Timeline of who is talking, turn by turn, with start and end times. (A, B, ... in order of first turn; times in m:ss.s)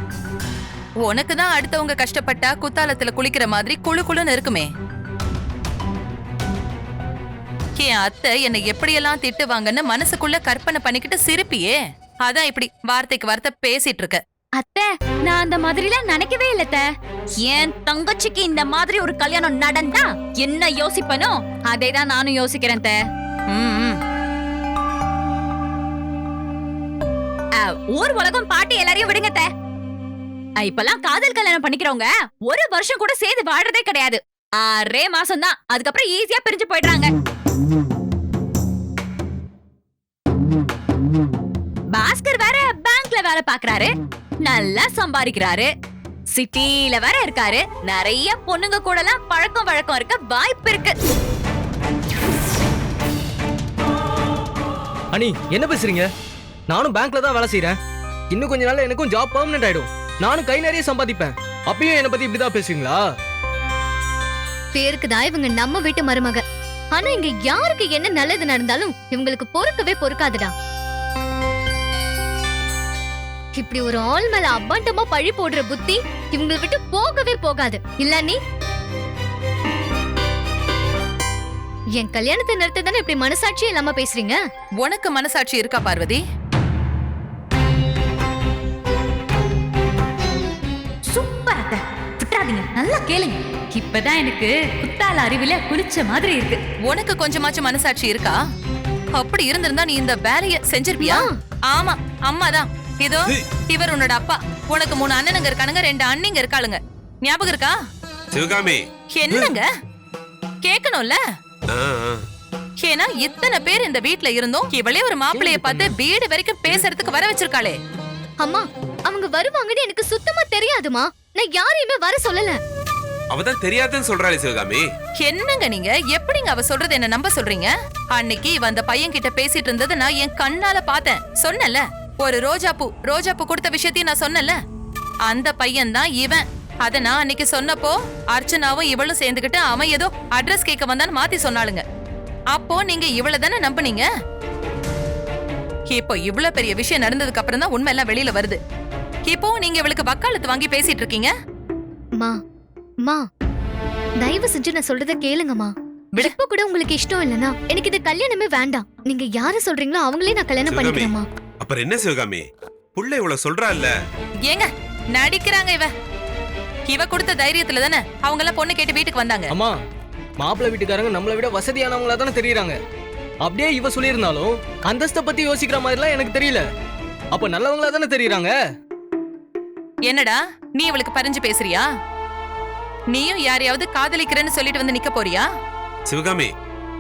0:01.0-0:04.7 A
0:07.8-0:14.2 A
0:14.6-0:16.8 B
0:17.4-0:23.0 B
0:23.5-0:24.0 A
0:27.6-0:29.5 B
0:30.6-0:37.1 B
0:41.9-0:43.9 B
0:44.4-0:45.7 B
0:46.3-0:51.0 B
0:55.1-0:56.1 C
0:56.7-0:57.8 C
0:58.3-1:03.0 C
1:04.8-1:06.4 D
1:06.9-1:10.5 D
1:13.6-1:18.4 D
1:22.0-1:24.4 D
1:24.8-1:26.2 A
1:31.0-1:36.6 B
1:36.9-1:38.4 A
1:39.2-1:47.8 A
1:41.0-1:41.4 D
1:48.3-1:49.5 E
1:49.2-1:49.7 A
1:50.6-1:51.2 A
1:51.7-1:52.2 E
1:52.8-1:57.8 A
1:55.4-1:55.9 C
1:58.4-2:02.6 D
2:03.3-2:04.8 E
2:05.2-2:14.6 A
2:15.3-2:21.8 A
2:22.5-2:24.1 A
2:25.9-2:28.6 A
2:29.3-2:31.3 A
2:34.2-2:41.3 D
2:40.7-2:44.0 E
2:44.5-2:45.9 A
2:46.9-2:49.5 A
2:50.4-2:52.8 C
2:53.4-2:56.6 C
2:57.3-2:58.6 C
3:00.1-3:01.9 A
3:03.1-3:05.5 A
3:06.1-3:06.5 E